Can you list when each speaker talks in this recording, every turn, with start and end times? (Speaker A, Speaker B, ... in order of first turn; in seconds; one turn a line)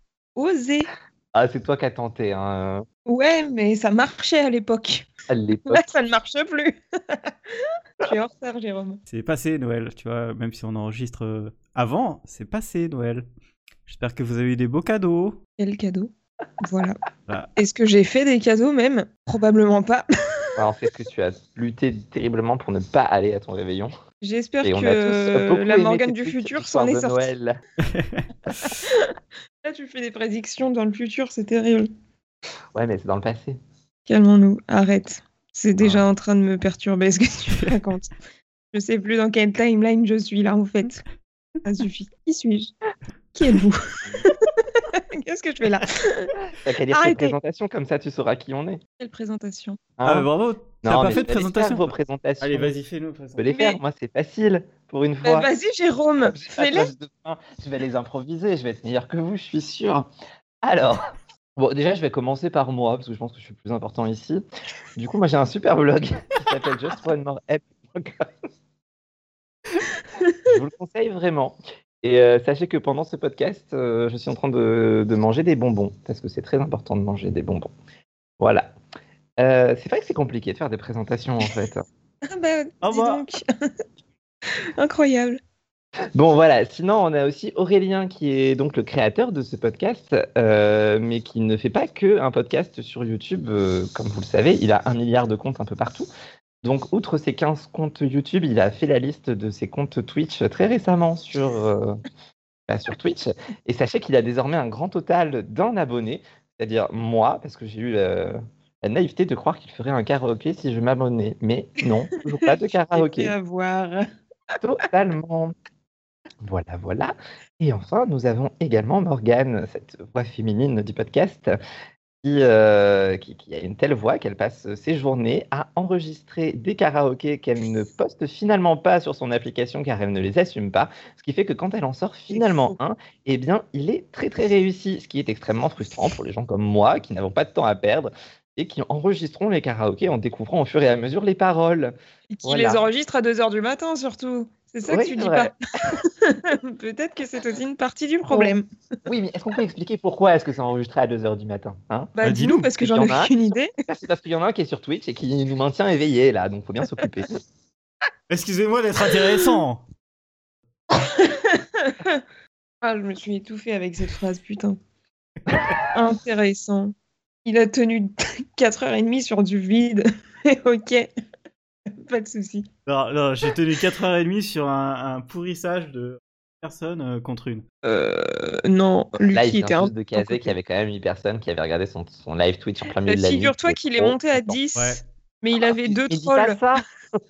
Speaker A: 0.4-0.9
Speaker B: 1.3-2.8
Speaker A: 3.1-5.1
Speaker B: 5.3-5.9
Speaker A: 5.7-9.0
Speaker C: 9.1-13.3
Speaker C: 13.9-15.4
Speaker A: 15.6-17.0
Speaker A: 17.6-20.6
Speaker B: 20.6-23.9
Speaker A: 24.2-27.3
Speaker B: 24.6-27.6
Speaker C: 27.8-28.8
Speaker A: 28.7-31.9
Speaker B: 32.7-33.6
Speaker A: 34.1-38.1
Speaker B: 35.8-36.0
Speaker A: 38.7-41.0
Speaker A: 41.6-42.7
Speaker A: 43.3-46.4
Speaker B: 46.6-48.8
Speaker A: 46.9-47.4
Speaker A: 49.0-49.8
Speaker B: 50.0-50.3
Speaker C: 50.0-53.5
Speaker B: 50.8-52.7
Speaker B: 53.4-55.5
Speaker A: 53.5-53.8
Speaker A: 55.2-56.9
Speaker B: 56.3-60.1
Speaker B: 60.6-61.0
Speaker B: 61.6-64.4
Speaker B: 65.0-68.3
Speaker A: 70.2-70.5
Speaker B: 70.5-77.7
Speaker B: 78.4-78.7
Speaker B: 79.4-81.8
Speaker A: 82.3-83.7
Speaker C: 82.8-83.2
Speaker A: 84.8-85.4
Speaker B: 86.2-96.1
Speaker B: 96.6-102.0
Speaker B: 102.7-113.3
Speaker A: 112.4-114.1
Speaker B: 114.6-115.5
Speaker B: 116.4-121.5
Speaker B: 122.2-142.8
Speaker A: 132.3-132.8
Speaker A: 142.3-148.7
Speaker B: 144.9-145.9
Speaker B: 148.3-148.6
Speaker B: 149.1-152.1
Speaker A: 152.2-153.7
Speaker C: 152.2-152.7
Speaker B: 152.8-153.3
Speaker B: 153.9-157.4
Speaker C: 158.3-159.8
Speaker A: 160.9-162.2
Speaker A: 162.8-164.8
Speaker A: 165.9-166.9
Speaker A: 167.4-171.1
Speaker A: 171.9-172.7
Speaker C: 172.9-177.6
Speaker A: 177.8-180.5
Speaker B: 179.3-184.6
Speaker A: 183.0-186.6
Speaker C: 184.8-185.0
Speaker B: 185.8-186.9